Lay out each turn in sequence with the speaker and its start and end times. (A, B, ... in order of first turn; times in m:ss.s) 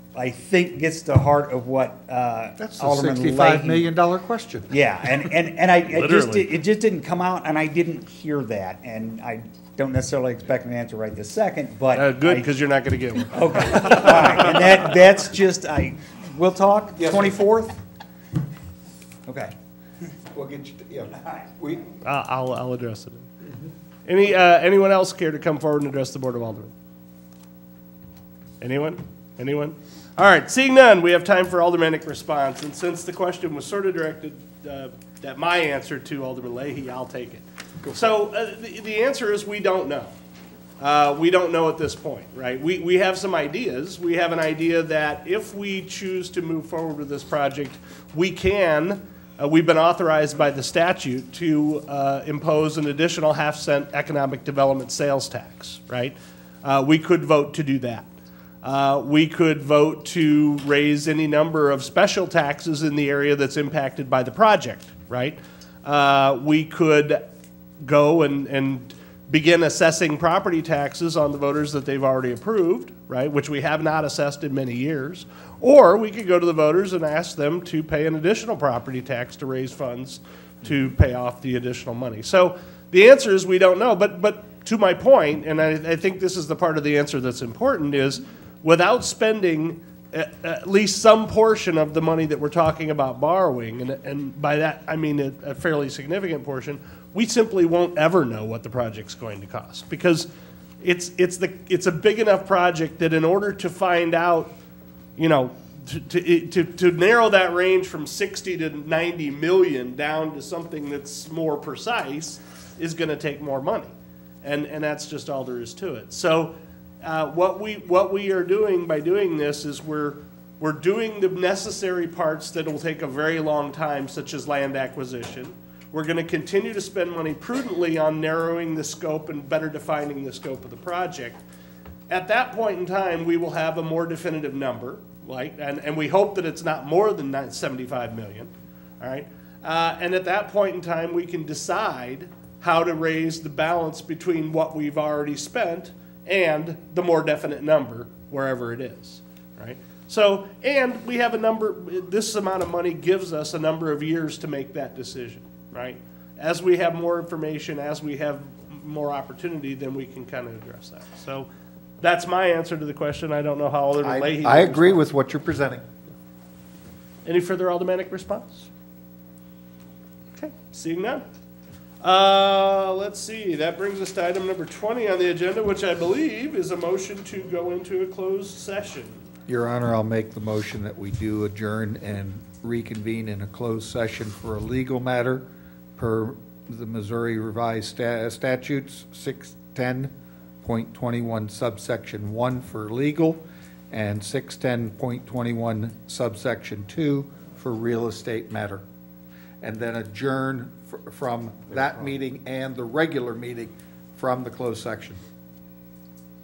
0:00.2-0:03.9 A
0:02.6-0:04.7 B
0:04.7-0:12.5 A
0:05.9-0:06.5 C
0:11.9-0:14.6 C
0:13.3-0:17.8 A
0:19.3-0:19.5 A
0:20.3-0:21.8 B
0:22.0-0:23.3 C
0:24.1-0:26.7 C
0:28.6-0:40.1 C
0:40.8-0:58.1 C
0:58.6-1:07.2 C
1:07.8-1:40.3 C
1:40.8-1:44.6 C
1:45.2-2:11.4 C
2:12.1-2:41.5 C
2:42.0-2:45.1 C
2:44.0-2:45.8 B
2:47.2-2:48.7 C
2:50.4-2:51.2 C
2:52.0-2:59.3 C
2:59.5-3:18.8 B
3:19.6-3:25.2 B